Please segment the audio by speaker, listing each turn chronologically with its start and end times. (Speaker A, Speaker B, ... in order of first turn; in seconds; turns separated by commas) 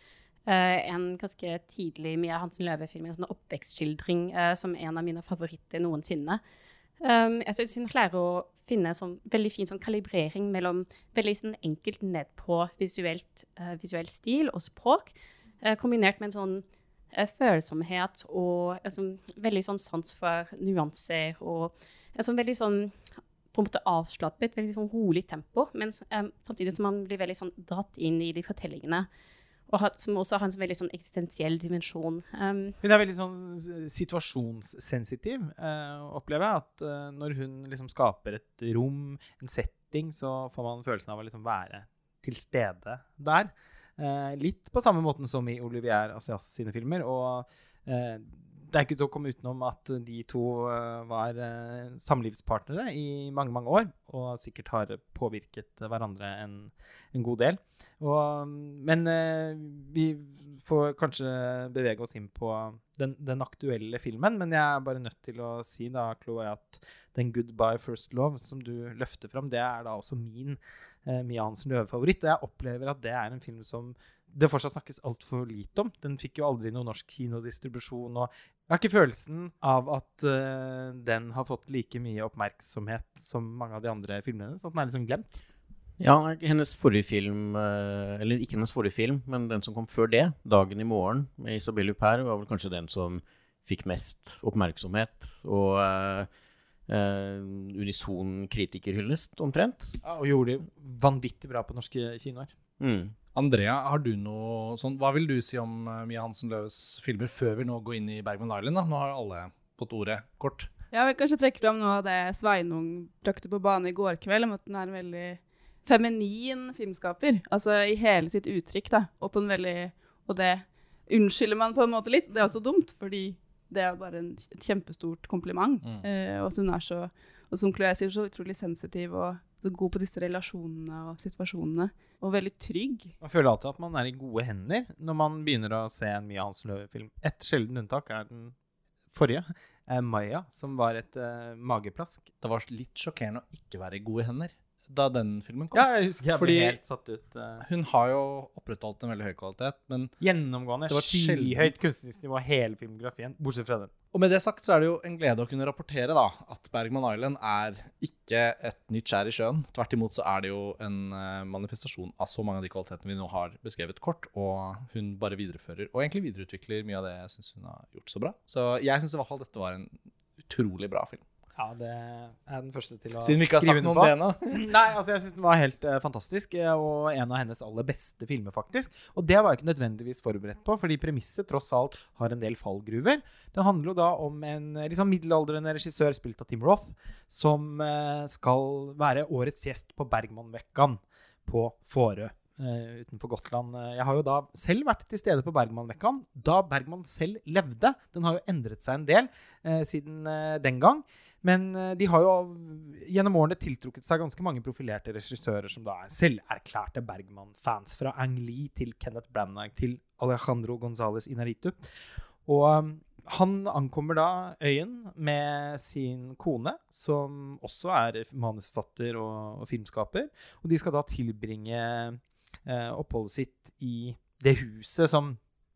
Speaker A: 0.5-6.4, Speaker A: 7.0-23.0, Speaker A: 23.5-29.1, Speaker A: 29.7-32.8, Speaker B: 32.8-85.4, Speaker C: 86.0-96.3, Speaker C: 96.9-100.0, Speaker B: 100.0-102.5, Speaker C: 102.8-103.1, Speaker D: 103.3-110.7, Speaker E: 110.9-133.1, Speaker B: 133.2-138.5, Speaker B: 139.1-142.3, Speaker D: 142.4-146.8, Speaker B: 145.7-147.6, Speaker D: 147.6-150.1, Speaker B: 150.2-153.9, Speaker D: 150.9-151.7, Speaker D: 154.1-171.2, Speaker B: 171.6-211.8, Speaker D: 173.2-174.7, Speaker B: 212.4-225.4